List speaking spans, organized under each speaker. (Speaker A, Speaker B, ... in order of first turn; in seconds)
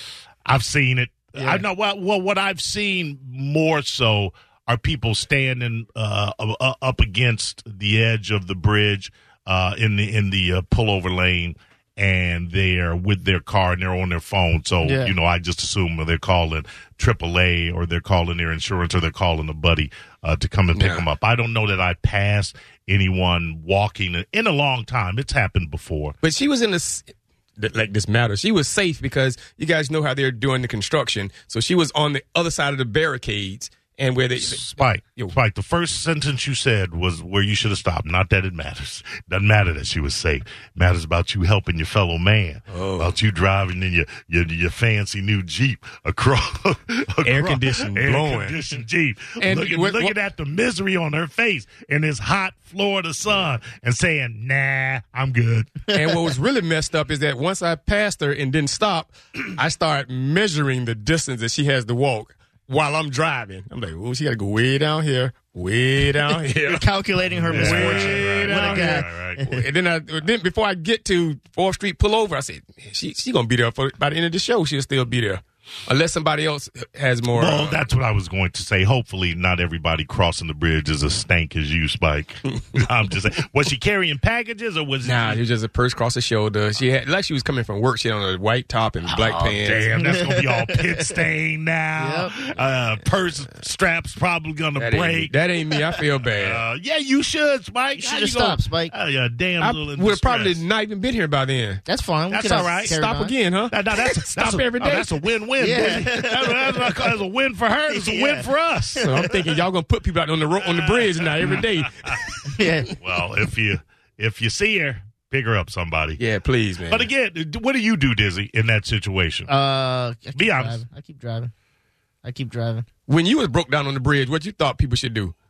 Speaker A: 0.5-26.2, 34.4-55.9, 67.5-69.4, 77.3-85.4, 89.1-95.3, 96.3-100.6, 102.3-102.9, 103.7-109.1, 110.7-112.2, 113.0-116.2, 116.9-119.5, 120.3-120.8
Speaker B: 1.4-1.6, 14.8-15.1, 66.7-69.6, 90.0-91.1, 92.0-92.3, 98.0-98.9, 101.9-103.3, 105.6-107.1, 107.9-109.3, 112.5-113.0, 119.5-121.5, 122.2-122.9
Speaker C: 20.7-21.1, 26.2-35.4, 42.7-43.1, 47.2-48.6, 49.4-50.2, 55.9-77.8, 85.0-89.9, 94.8-96.6, 99.6-101.8, 102.8-105.2, 109.0-112.4, 116.2-117.1, 123.1-125.3